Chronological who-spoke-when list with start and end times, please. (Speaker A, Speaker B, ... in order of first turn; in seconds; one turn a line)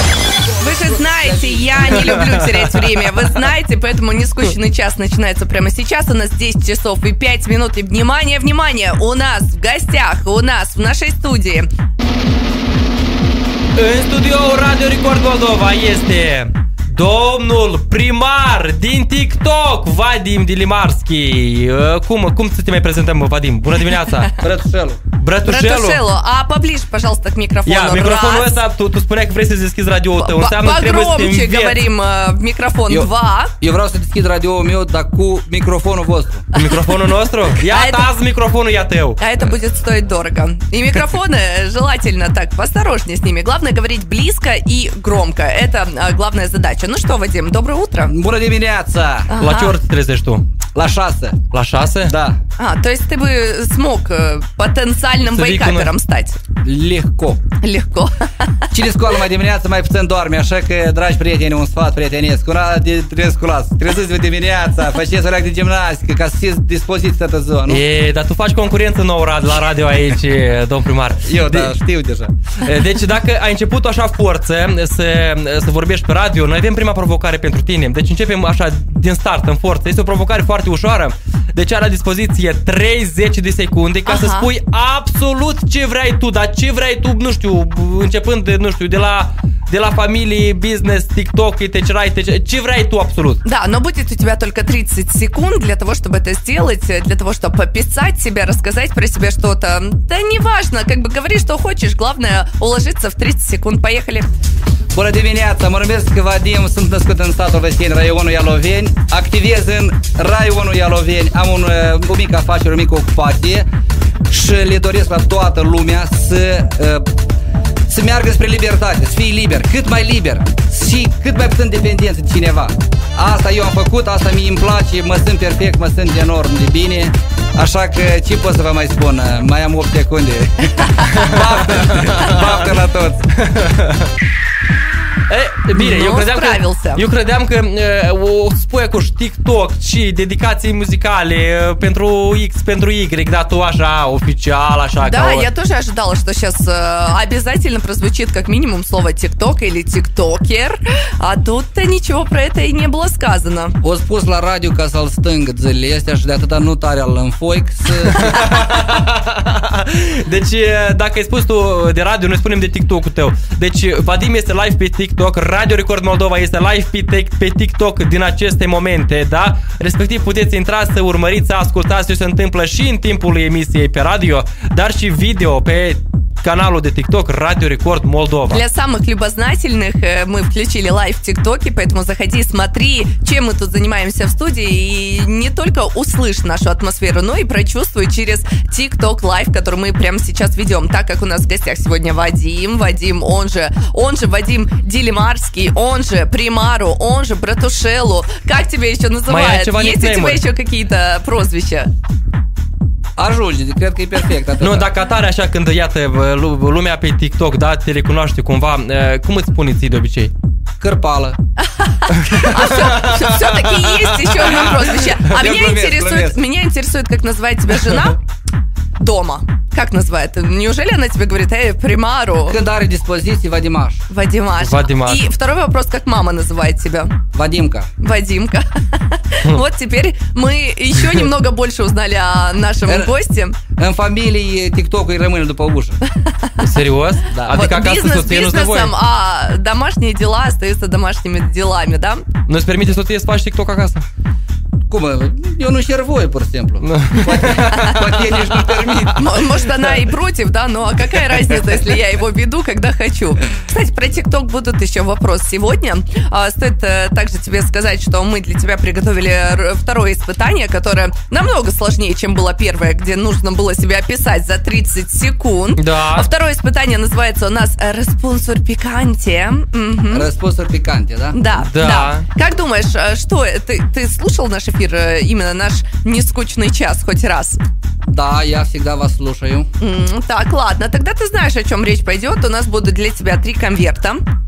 Speaker A: 0.6-11.7
Speaker B: 0.6-2.4
Speaker C: 2.1-3.0
Speaker C: 13.8-24.3
Speaker B: 24.4-25.0
Speaker C: 25.2-26.0
Speaker A: 25.5-28.6
Speaker C: 27.7-31.8
Speaker A: 30.2-33.5
Speaker B: 32.9-36.5
Speaker C: 36.5-39.2
Speaker A: 36.6-38.1
Speaker A: 39.2-48.1
Speaker B: 48.1-49.3
Speaker A: 49.3-49.8
Speaker C: 49.4-50.5
Speaker B: 50.7-51.4
Speaker C: 51.5-52.1
Speaker B: 52.1-52.4
Speaker A: 52.6-56.4
Speaker C: 55.3-55.9
Speaker B: 56.6-57.4
Speaker A: 57.6-58.5
Speaker B: 58.7-67.8
Speaker C: 67.7-71.7
Speaker B: 71.2-72.3
Speaker C: 72.6-93.4
Speaker A: 84.1-84.5
Speaker A: 93.4-104.3
Speaker B: 104.9-113.7
Speaker B: 114.3-117.1
Speaker B: 117.9-133.3
Speaker C: 131.1-132.5
Speaker C: 133.4-134.1
Speaker C: 135.3-145.5
Speaker A: 135.7-137.0
Speaker A: 145.0-153.8
Speaker B: 153.8-158.3
Speaker C: 158.1-178.6
Speaker A: 178.5-201.9
Speaker C: 199.3-200.4
Speaker B: 203.2-204.9
Speaker C: 204.6-210.3
Speaker B: 210.8-211.4
Speaker A: 211.8-218.2
Speaker C: 212.3-214.8
Speaker B: 215.2-216.4
Speaker A: 219.0-222.6
Speaker B: 222.5-224.0
Speaker A: 224.1-227.1
Speaker C: 224.6-225.2
Speaker B: 227.3-227.9
Speaker A: 228.0-233.6
Speaker B: 232.9-233.1
Speaker B: 233.8-236.0
Speaker A: 236.2-236.5
Speaker C: 236.6-238.9
Speaker B: 237.3-237.6
Speaker A: 237.5-242.3
Speaker C: 242.5-244.1
Speaker B: 244.9-249.4
Speaker C: 246.8-248.9
Speaker A: 249.1-270.3
Speaker C: 265.8-266.3
Speaker B: 270.1-271.4
Speaker A: 271.3-277.6
Speaker C: 271.5-272.3
Speaker B: 278.1-279.7
Speaker A: 279.8-284.2